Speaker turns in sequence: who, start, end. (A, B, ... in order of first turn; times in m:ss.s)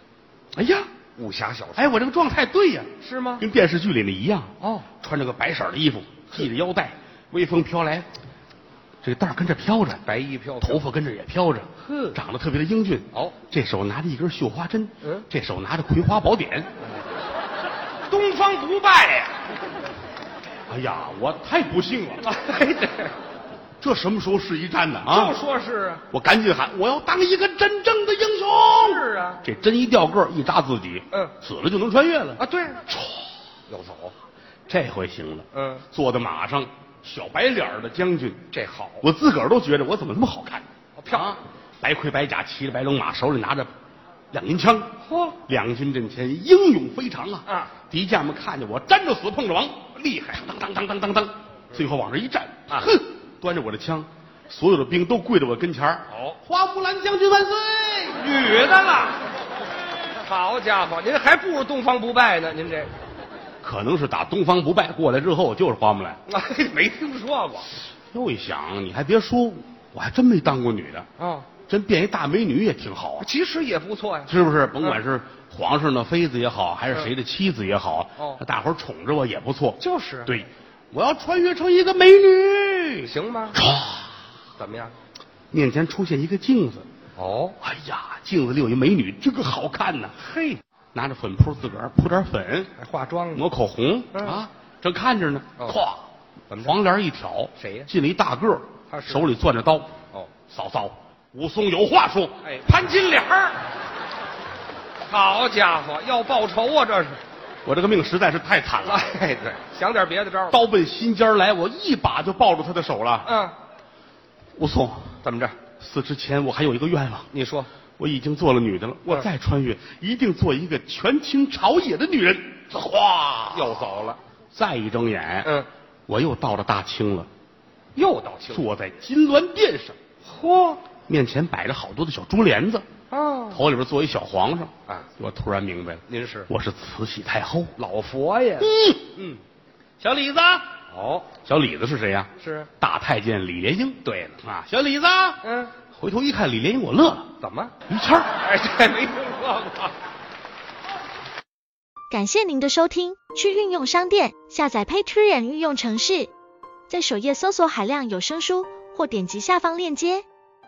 0:00.6-0:00.9 A
0:01.2-0:01.9 B
0:01.8-0:08.1 A
0:03.0-0:03.4 B
0:04.6-0:04.9 B
0:09.0-0:10.0 A
0:10.0-0:10.8 B
0:10.6-0:16.7 A
0:11.8-0:12.2 B
0:18.1-0:19.4 B
0:20.7-0:22.2 A
0:22.2-0:23.2 B
0:23.8-0:25.4 A
0:25.0-0:26.0 B
0:26.1-0:32.4 A
0:28.7-0:29.4 B
0:32.4-0:32.9 B
0:33.7-0:34.1 B
0:34.7-0:38.4 A
0:35.5-0:35.8 B
0:38.5-0:39.0 B
0:39.0-0:43.7 A
0:41.0-0:41.4 B
0:44.3-0:44.9 A
0:45.0-0:45.4 B
0:45.4-0:58.5 A
0:47.5-0:47.7 B
0:50.0-0:50.4 B
0:56.1-0:56.4 B
0:58.2-0:59.2 B
1:00.2-1:02.9 B
1:03.6-1:06.2 A
1:06.3-1:07.7 B
1:08.1-1:11.1 A
1:11.2-1:11.5 B
1:11.7-1:13.3 A
1:13.2-1:15.0 B
1:14.3-1:24.2 A
1:18.2-1:18.4 B
1:19.8-1:20.3 B
1:23.1-1:23.6 B
1:24.6-1:24.9 B
1:25.5-1:26.9 A
1:27.2-1:27.6 B
1:27.6-1:30.2 A
1:30.2-1:30.6 B
1:30.9-1:32.7 A
1:32.8-1:33.5 B
1:33.4-1:36.0 A
1:34.1-1:34.4 B
1:36.5-1:36.8 B
1:36.6-1:39.9 A
1:37.6-1:37.9 B
1:38.9-1:39.3 B
1:40.5-1:42.4 A
1:42.4-1:43.6 B
1:45.1-1:47.2 B
1:47.6-1:49.1 A
1:48.8-1:50.6 B
1:50.5-1:53.3 A
1:53.2-1:53.6 B
1:54.6-1:55.2 A
1:55.2-1:55.6 B
1:55.8-1:57.3 A
1:57.3-1:57.7 B
1:58.0-2:03.9 A
2:03.5-2:04.2 B
2:04.5-2:05.5 A
2:06.1-2:07.3 A
2:08.0-2:08.6 B
2:08.5-2:10.0 A
2:10.2-2:10.8 B
2:11.1-2:12.9 A
2:13.1-2:13.6 B
2:13.5-2:17.8 A
2:16.1-2:16.5 B
2:17.8-2:19.4 B
2:18.6-2:19.1 A
2:20.0-2:21.3 B
2:21.4-2:25.4 A
2:22.4-2:22.7 B
2:24.0-2:24.4 B
2:25.4-2:25.7 B
2:25.9-2:27.3 A
2:27.4-2:27.8 B
2:27.9-2:28.3 A
2:28.4-2:30.0 B
2:32.1-2:36.3 C
2:36.9-2:40.2 C